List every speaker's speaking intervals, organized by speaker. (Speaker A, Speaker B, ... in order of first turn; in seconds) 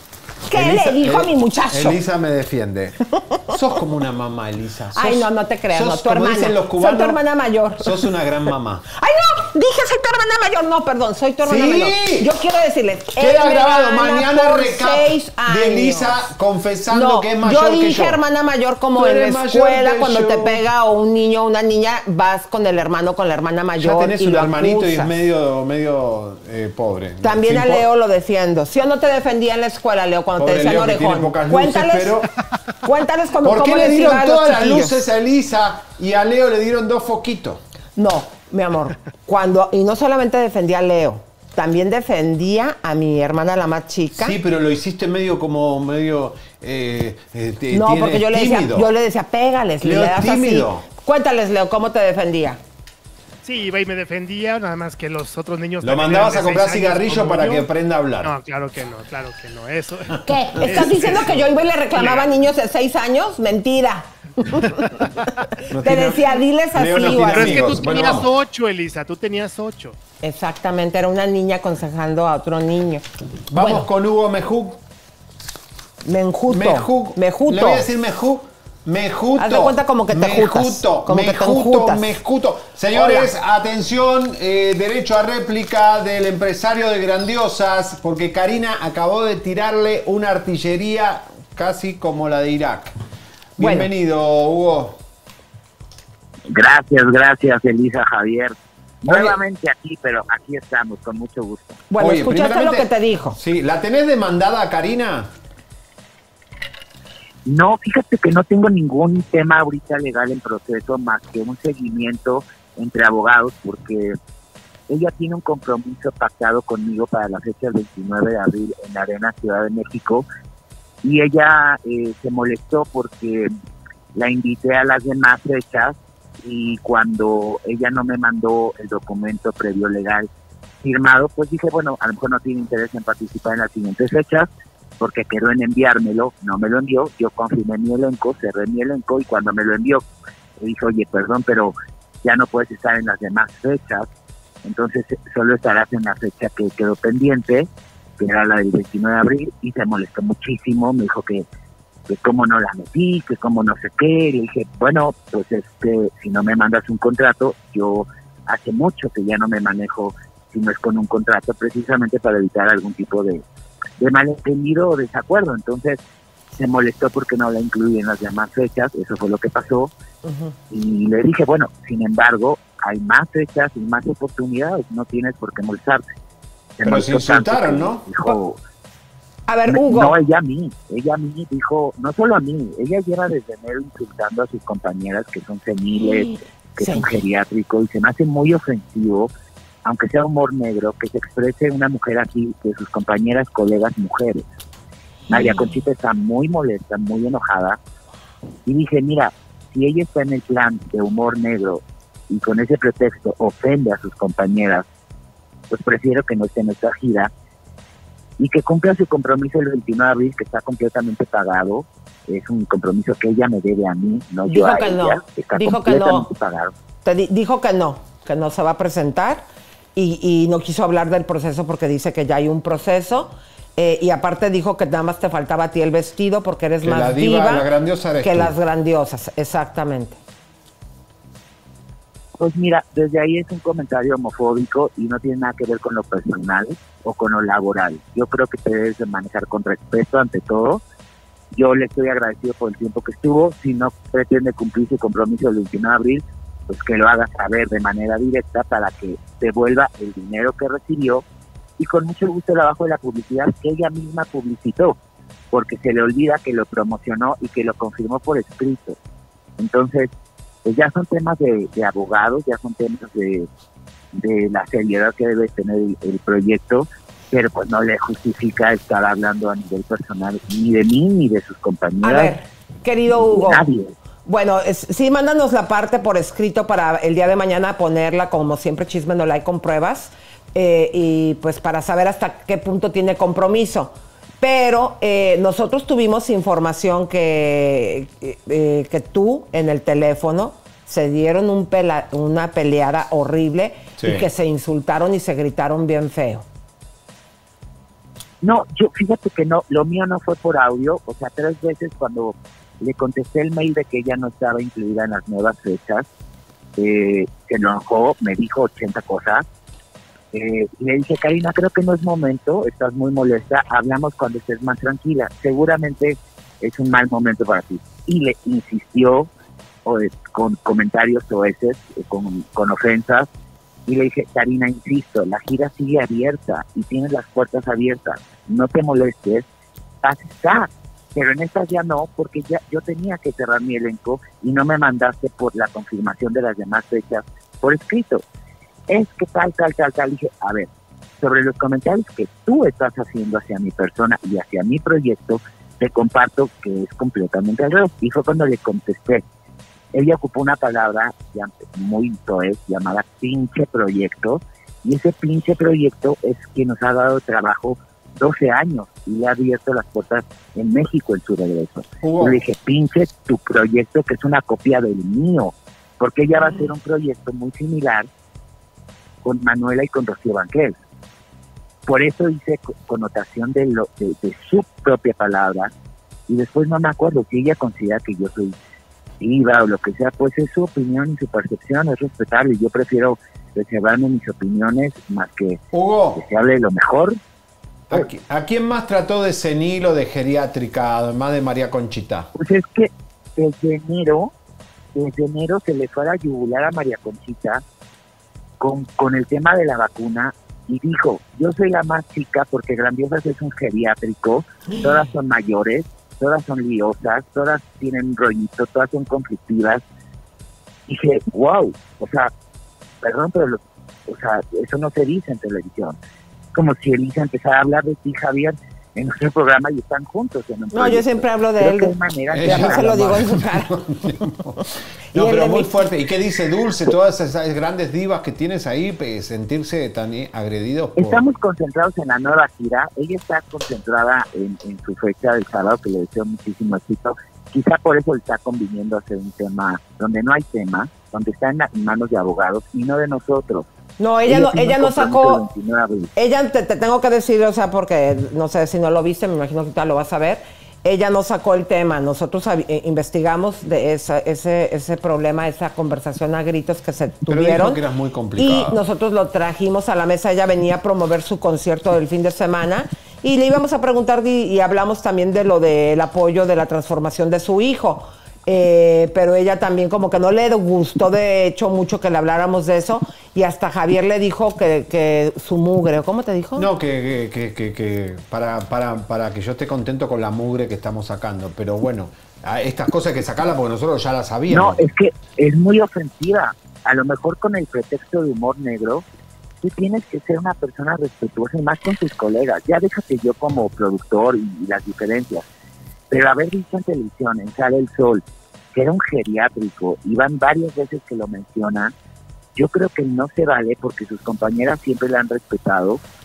Speaker A: 0.5-2.0, 5.0-8.1, 8.9-16.3, 16.9-25.1, 27.2-32.2, 32.8-35.0, 38.0-44.4, 47.7-52.6, 60.2-67.7, 70.2-73.9, 76.0-77.9, 79.4-82.1, 82.9-83.3, 93.6-93.9, 101.9-103.4, 170.3-170.5, 179.5-180.2, 186.8-187.1, 214.5-216.3, 217.0-227.7, 228.2-230.2, 272.0-273.6, 274.2-296.5, 420.7-423.7, 425.1-425.9, 444.0-445.4, 446.2-457.8, 458.4-476.7
Speaker B: 0.5-7.2, 7.8-8.8, 11.4-12.3, 13.2-18.2, 18.9-20.6, 23.8-27.9, 30.4-32.3, 33.4-37.6, 44.1-48.9, 49.8-50.9, 55.8-58.3, 60.7-61.1, 65.7-68.3, 73.5-74.8, 76.5-92.9, 93.6-95.0, 99.1-99.3, 102.0-105.3, 176.9-178.1, 226.8-228.6, 294.0-294.3, 362.0-362.4, 385.7-386.3, 387.9-392.3, 422.3-431.2, 457.3-458.8, 476.6-484.8
Speaker C: 53.4-57.7, 58.2-62.3, 67.1-70.0
Speaker D: 96.5-101.8, 107.5-114.2, 114.9-120.2, 121.0-123.5, 124.2-130.3, 130.8-140.1, 140.6-144.1, 144.6-151.5, 152.1-163.4, 164.0-166.0, 166.5-169.9, 170.7-176.0, 176.8-178.6, 179.7-189.3, 189.8-194.5, 195.3-197.8, 198.7-204.9, 205.7-207.3, 208.4-216.7, 232.4-240.8, 241.5-251.2, 251.8-255.0, 255.5-259.0, 259.6-260.1, 260.6-263.5, 264.1-272.4, 273.1-274.0, 298.4-306.1, 306.8-309.5, 310.3-319.3, 319.9-323.3, 323.9-329.5, 330.0-338.2, 338.9-349.2, 349.9-368.1, 369.2-370.8, 371.9-375.7, 376.3-378.6, 379.2-385.6, 386.1-387.2, 392.4-394.3, 394.9-397.6, 398.6-409.8, 410.9-412.3, 413.0-416.0, 416.5-423.1, 431.0-443.7, 444.3-446.1, 484.5-489.1, 489.6-495.4, 496.1-498.2, 498.7-501.9, 502.6-506.0